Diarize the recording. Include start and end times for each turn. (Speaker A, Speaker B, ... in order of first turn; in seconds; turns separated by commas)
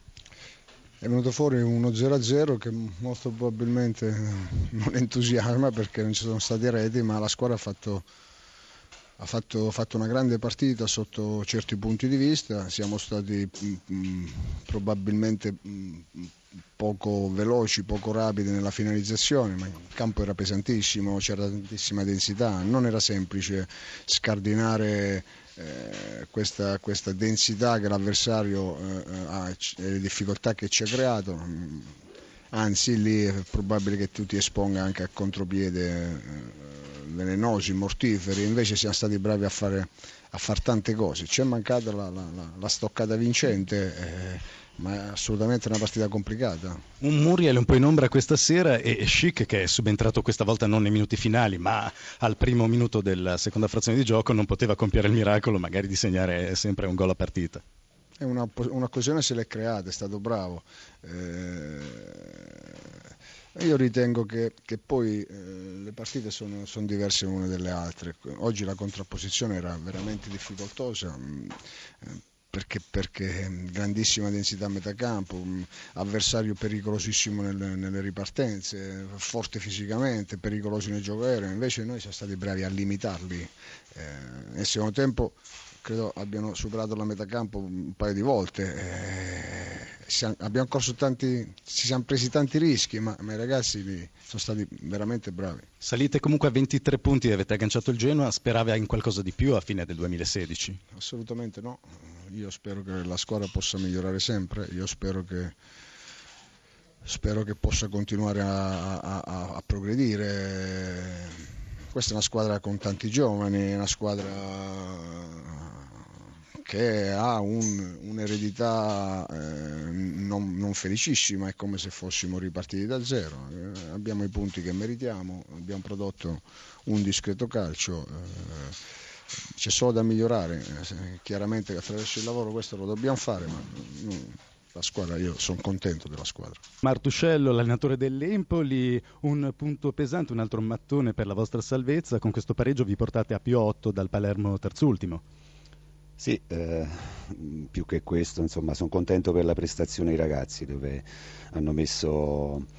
Speaker A: 1.0-8.1, Speaker A: 9.2-31.9, Speaker A: 32.5-46.8, Speaker B: 47.0-57.6, Speaker A: 58.2-62.9, Speaker A: 63.6-95.7, Speaker B: 95.8-100.8, Speaker A: 100.9-105.5, Speaker A: 107.0-116.0, Speaker A: 116.6-128.8, Speaker A: 129.6-136.6, Speaker B: 136.8-145.2, Speaker C: 146.2-152.7